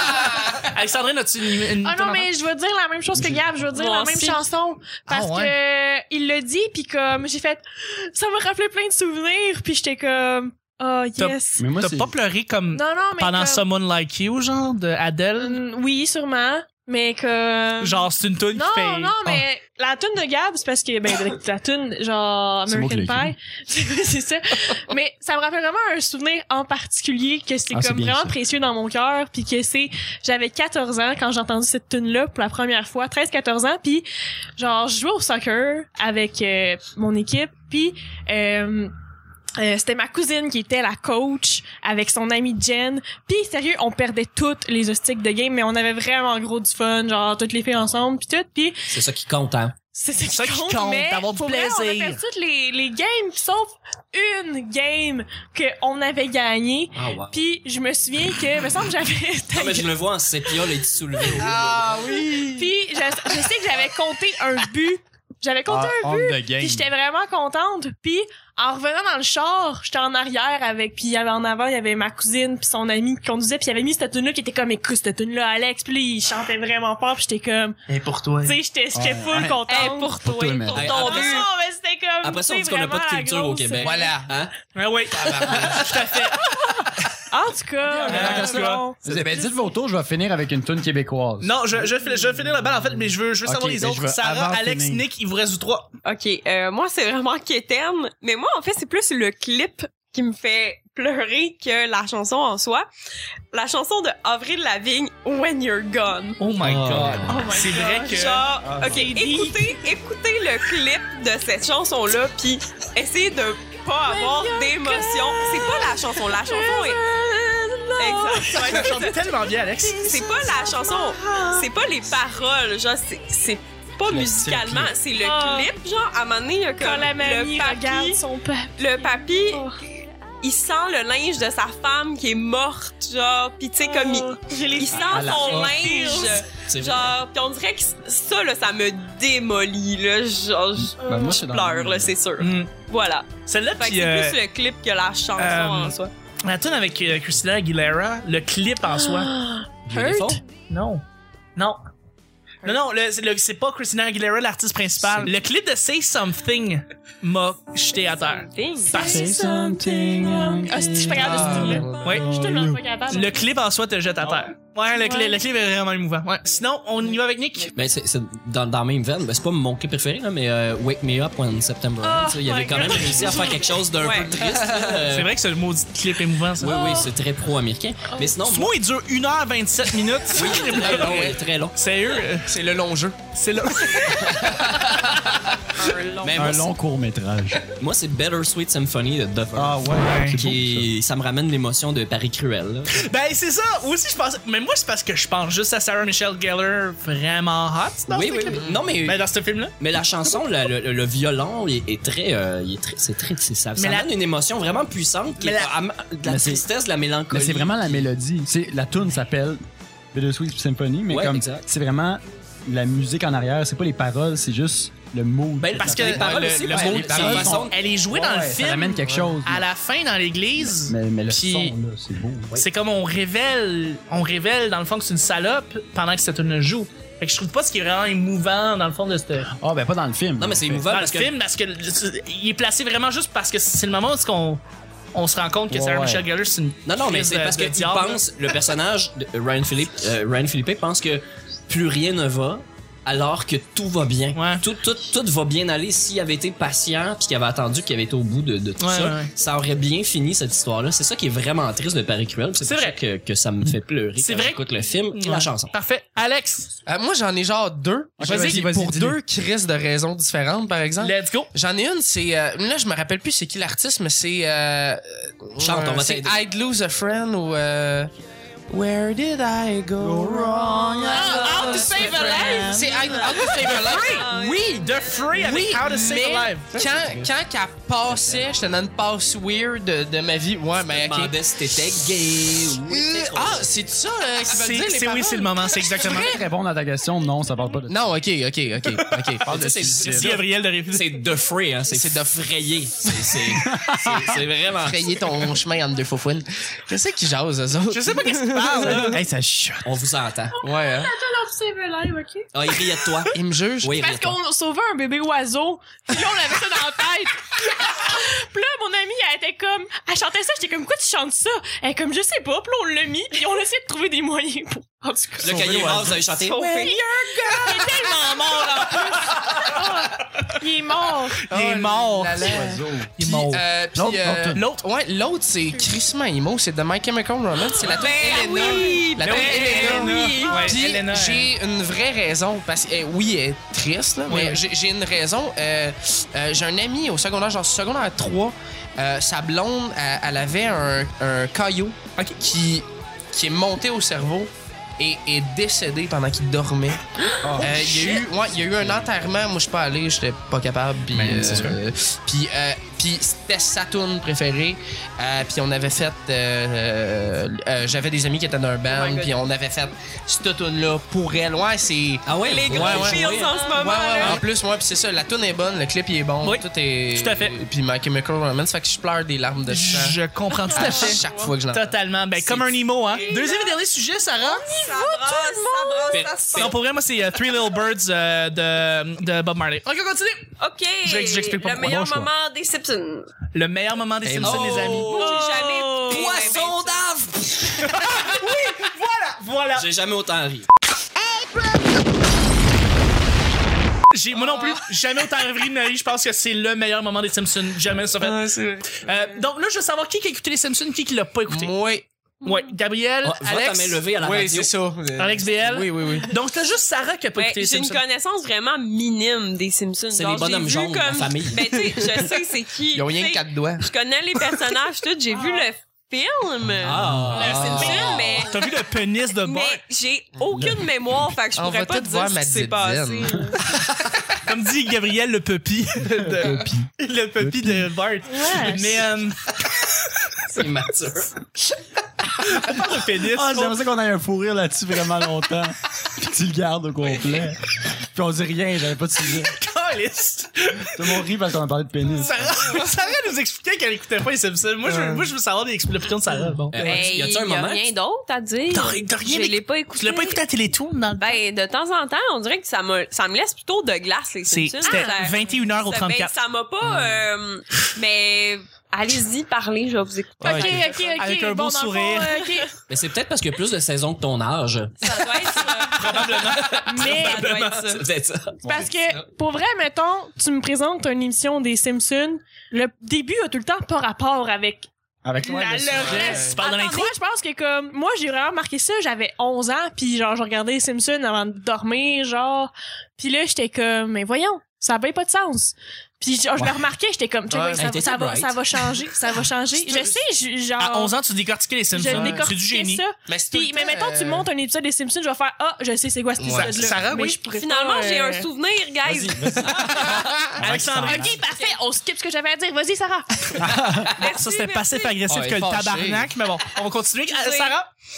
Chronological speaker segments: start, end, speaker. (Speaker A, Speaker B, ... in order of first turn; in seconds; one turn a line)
Speaker A: 0.7-2.3
Speaker B: 1.8-11.6
Speaker C: 3.1-3.7
Speaker D: 3.7-4.4
Speaker A: 5.1-5.5
Speaker A: 11.2-15.6
Speaker C: 11.6-12.1
Speaker B: 12.7-13.6
Speaker B: 15.4-34.0
Speaker A: 17.8-19.2
Speaker C: 22.7-23.3
Speaker C: 27.7-28.4
Speaker B: 34.6-38.9
Speaker B: 39.6-48.8
Speaker E: 48.9-49.7
Speaker B: 50.0-60.5
Speaker A: 50.2-52.2
Speaker E: 56.9-57.4
Speaker E: 59.5-62.0
Speaker B: 61.2-61.5
Speaker F: 61.3-62.7
Speaker B: 62.4-77.8
Speaker C: 65.7-66.9
Speaker F: 77.9-78.6
Speaker B: 78.4-80.2
Speaker C: 78.9-79.6
Speaker D: 79.7-81.5
Speaker C: 80.2-81.0
Speaker E: 80.7-81.5
Speaker B: 80.7-84.1
Speaker E: 82.2-84.5
Speaker F: 83.8-84.3
Speaker A: 84.7-86.4
Speaker F: 85.1-86.0
Speaker B: 86.3-89.5
Speaker C: 87.8-91.7
Speaker A: 88.1-88.8
Speaker A: 91.4-95.9
Speaker C: 93.4-95.0
Speaker D: 96.0-102.9
Speaker D: 103.5-106.4
Speaker A: 106.4-108.5
Speaker E: 106.6-107.4
Speaker B: 107.2-109.8
Speaker D: 108.0-117.0
Speaker C: 108.6-109.1
Speaker B: 114.0-118.8
Speaker D: 118.0-119.2
Speaker A: 118.4-120.5
Speaker D: 120.0-128.2
Speaker B: 120.0-121.7
Speaker C: 124.1-124.9
Speaker B: 125.2-125.7
Speaker B: 126.8-129.8
Speaker D: 128.8-129.7
Speaker D: 130.4-146.1
Speaker B: 133.8-136.4
Speaker C: 134.9-135.8
Speaker E: 136.7-137.1
Speaker C: 140.9-142.1
Speaker A: 142.4-142.7
Speaker A: 143.5-144.4
Speaker A: 145.4-149.3
Speaker D: 149.3-149.6
Speaker E: 149.9-150.4
Speaker B: 149.9-150.2
Speaker A: 150.7-151.0
Speaker A: 151.6-151.8
Speaker A: 152.6-159.3
Speaker D: 157.9-159.2
Speaker B: 158.9-163.4
Speaker C: 158.9-162.8
Speaker F: 161.2-162.2
Speaker A: 161.4-162.3
Speaker A: 163.1-167.7
Speaker B: 165.0-165.4
Speaker E: 167.7-175.3
Speaker B: 172.0-173.8
Speaker D: 174.0-174.4
Speaker F: 174.4-174.9
Speaker A: 175.1-176.9
Speaker E: 176.6-178.8
Speaker B: 176.7-177.1
Speaker D: 176.8-177.0
Speaker A: 178.4-182.5
Speaker E: 180.3-181.8
Speaker F: 182.4-183.2
Speaker A: 183.3-184.4
Speaker E: 184.1-185.4
Speaker D: 185.8-186.5
Speaker E: 186.2-186.7
Speaker C: 186.3-187.6
Speaker E: 187.8-193.0
Speaker C: 189.5-190.9
Speaker A: 190.0-190.4
Speaker A: 192.9-199.7
Speaker E: 198.1-199.2
Speaker F: 198.5-198.9
Speaker E: 199.8-208.1
Speaker A: 203.8-204.1
Speaker A: 205.4-205.7
Speaker C: 206.2-206.6
Speaker C: 207.3-209.6
Speaker C: 210.1-219.6
Speaker E: 211.1-211.6
Speaker E: 215.6-217.8
Speaker A: 215.7-221.7
Speaker F: 216.2-217.2
Speaker F: 219.0-219.4
Speaker C: 220.7-222.5
Speaker A: 222.5-229.5
Speaker C: 229.5-230.8
Speaker E: 230.4-231.3
Speaker A: 230.9-234.6
Speaker A: 235.1-238.2
Speaker C: 235.7-236.2
Speaker E: 236.8-255.7
Speaker A: 244.3-244.6
Speaker A: 248.8-249.3
Speaker A: 252.6-253.0
Speaker A: 254.2-254.6
Speaker A: 255.1-256.7
Speaker F: 256.9-268.1
Speaker C: 258.2-259.2
Speaker A: 258.2-258.6
Speaker A: 261.0-261.5
Speaker E: 265.6-266.4
Speaker F: 268.7-274.3
Speaker C: 270.0-273.1
Speaker A: 271.1-272.7
Speaker D: 271.2-275.3
Speaker A: 273.5-276.8
Speaker F: 275.4-281.4
Speaker E: 276.8-277.3
Speaker E: 280.9-283.7
Speaker F: 282.1-286.2
Speaker A: 284.5-286.3
Speaker C: 286.0-288.1
Speaker F: 287.9-290.0
Speaker E: 289.4-295.3
Speaker C: 289.4-290.4
Speaker A: 290.0-291.1
Speaker F: 291.9-293.3
Speaker C: 293.5-294.4
Speaker F: 294.8-299.2
Speaker A: 297.9-299.2
Speaker C: 298.8-299.9
Speaker E: 299.8-300.6
Speaker B: 300.6-303.2
Speaker F: 300.6-301.1
Speaker E: 302.5-304.4
Speaker F: 303.3-303.9
Speaker B: 303.9-315.9
Speaker E: 315.4-316.9
Speaker C: 315.4-316.2
Speaker D: 316.2-317.6
Speaker A: 316.8-319.4
Speaker B: 317.6-321.4
Speaker A: 321.5-323.6
Speaker F: 321.5-347.0
Speaker C: 322.4-323.1
Speaker C: 323.9-324.6
Speaker A: 324.5-324.8
Speaker D: 327.8-330.8
Speaker B: 328.4-328.7
Speaker A: 329.2-331.5
Speaker B: 330.4-330.7
Speaker A: 334.3-334.6
Speaker C: 347.4-348.1
Speaker F: 347.6-370.2
Speaker C: 351.1-351.8
Speaker D: 358.9-359.3
Speaker E: 362.2-363.6
Speaker D: 362.4-364.4
Speaker A: 366.4-367.6
Speaker A: 369.6-374.7
Speaker D: 370.7-371.5
Speaker F: 370.7-371.9
Speaker D: 373.1-373.7
Speaker D: 374.5-376.8
Speaker B: 374.6-376.2
Speaker E: 376.1-376.8
Speaker A: 376.5-381.9
Speaker D: 380.6-383.3
Speaker C: 381.8-382.3
Speaker A: 383.5-385.4
Speaker F: 384.2-385.0
Speaker E: 384.4-387.9
Speaker D: 385.0-387.0
Speaker B: 385.1-386.3
Speaker A: 387.8-389.9
Speaker E: 389.7-390.7
Speaker A: 394.1-401.7
Speaker F: 398.2-399.1
Speaker F: 401.5-402.1
Speaker A: 402.4-404.0
Speaker E: 403.2-404.8
Speaker F: 404.1-406.3
Speaker A: 405.1-408.0
Speaker D: 407.4-418.6
Speaker E: 410.1-412.1
Speaker F: 412.9-413.9
Speaker B: 415.4-415.6
Speaker E: 416.8-418.5
Speaker C: 417.1-417.3
Speaker A: 417.3-419.8
Speaker D: 419.4-423.6
Speaker C: 420.5-420.8
Speaker F: 421.6-423.5
Speaker A: 424.4-429.4
Speaker C: 426.2-427.9
Speaker B: 428.2-429.0
Speaker E: 430.5-431.4
Speaker A: 432.4-433.8
Speaker C: 433.2-439.5
Speaker A: 439.2-441.2
Speaker C: 440.9-442.6
Speaker A: 442.2-446.9
Speaker E: 446.7-447.8
Speaker D: 446.8-450.4
Speaker A: 448.7-451.4
Speaker D: 451.2-461.2
Speaker A: 454.4-456.3
Speaker B: 454.8-455.2
Speaker A: 460.4-462.4
Speaker B: 460.4-462.7
Speaker E: 462.9-465.2
Speaker D: 465.0-468.1
Speaker A: 465.9-467.8
Speaker E: 466.5-468.6
Speaker B: 466.8-467.5
Speaker C: 468.6-468.9
Speaker B: 468.6-474.9
Speaker C: 475.2-476.4
Speaker B: 475.4-491.1
Speaker F: 476.0-476.6
Speaker A: 476.0-477.1
Speaker D: 476.6-477.0
Speaker F: 487.5-487.8
Speaker E: 487.8-488.6
Speaker F: 489.8-490.2
Speaker A: 490.8-493.0
Speaker B: 491.9-498.5
Speaker F: 492.1-492.4
Speaker F: 493.2-494.5
Speaker F: 496.4-497.0
Speaker A: 496.4-497.6
Speaker D: 497.6-500.0
Speaker C: 499.0-501.3
Speaker F: 500.0-500.6
Speaker A: 500.6-501.4
Speaker B: 500.7-503.7
Speaker D: 501.3-501.8
Speaker C: 503.6-504.1
Speaker A: 503.9-507.9
Speaker D: 504.1-505.2
Speaker F: 505.3-506.3
Speaker D: 507.3-507.8